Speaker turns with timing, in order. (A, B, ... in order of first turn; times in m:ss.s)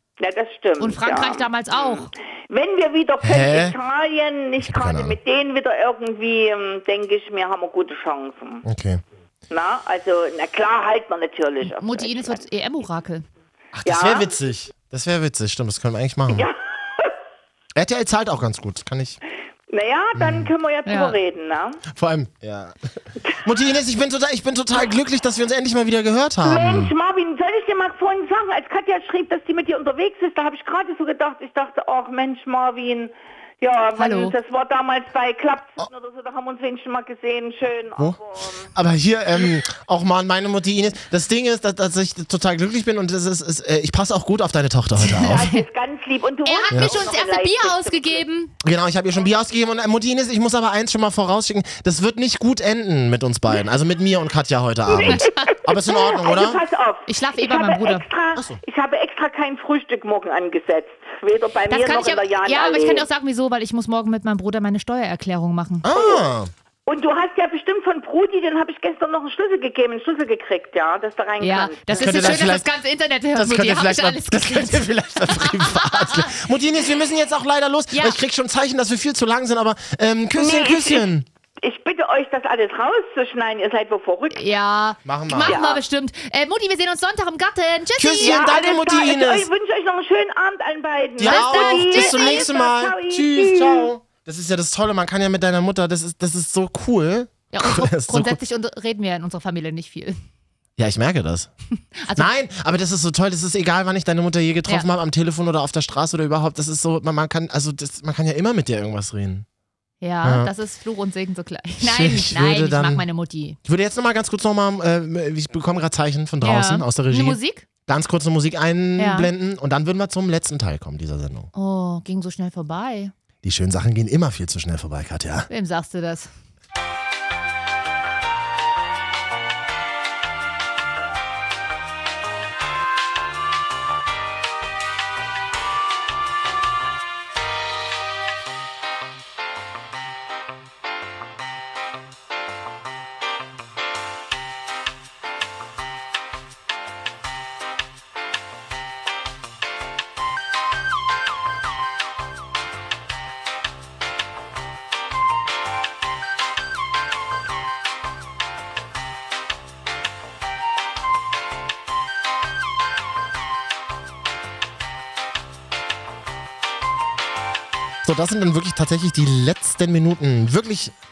0:00.2-0:08.6 A
0:00.8-0:02.1 B
0:03.2-0:03.8 C
0:04.6-0:05.2 C
0:08.6-0:09.0 C
0:09.5-0:12.4 A
0:11.7-0:13.3 B
0:13.7-0:16.5 C
0:13.8-0:14.3 A
0:16.3-0:17.1 A
0:17.8-0:19.2 C
0:19.7-0:21.8 A
0:20.2-0:20.5 C
0:20.9-0:21.2 B
0:21.9-0:22.8 C
0:23.4-0:26.9 C
0:26.4-0:38.7 A
0:34.0-0:34.4 B
0:38.7-0:45.5 C
0:45.0-0:45.6 B
0:45.2-0:48.2 A
0:46.4-0:48.5 B
0:46.7-0:47.0 C
0:48.6-0:56.6 C
0:54.9-1:03.1 A
0:55.1-0:55.6 B
0:57.1-0:58.1 B
0:58.4-0:58.6 C
1:01.7-1:05.9 B
1:05.8-1:06.5 C
1:05.9-1:06.2 A
1:06.9-1:12.4 A
1:11.4-1:16.4 B
1:11.9-1:12.7 C
1:13.4-1:21.3 C
1:17.9-1:18.2 B
1:20.4-1:21.1 A
1:21.6-1:24.4 A
1:24.3-1:28.4 B
1:25.0-1:25.6 C
1:25.5-1:25.8 A
1:28.0-1:29.5 C
1:28.2-1:33.9 A
1:31.2-1:38.4 C
1:31.2-1:32.5 B
1:37.5-1:40.2 B
1:40.8-1:41.5 C
1:42.0-1:42.3 B
1:42.2-1:49.5 C
1:50.0-1:53.6 B
1:50.2-1:50.5 C
1:51.8-1:53.0 C
1:53.6-2:01.5 C
1:56.4-1:57.7 B
1:59.0-1:59.3 B
2:01.5-2:03.1 B
2:03.4-2:05.5 C
2:05.5-2:06.3 B
2:48.0-2:51.0 C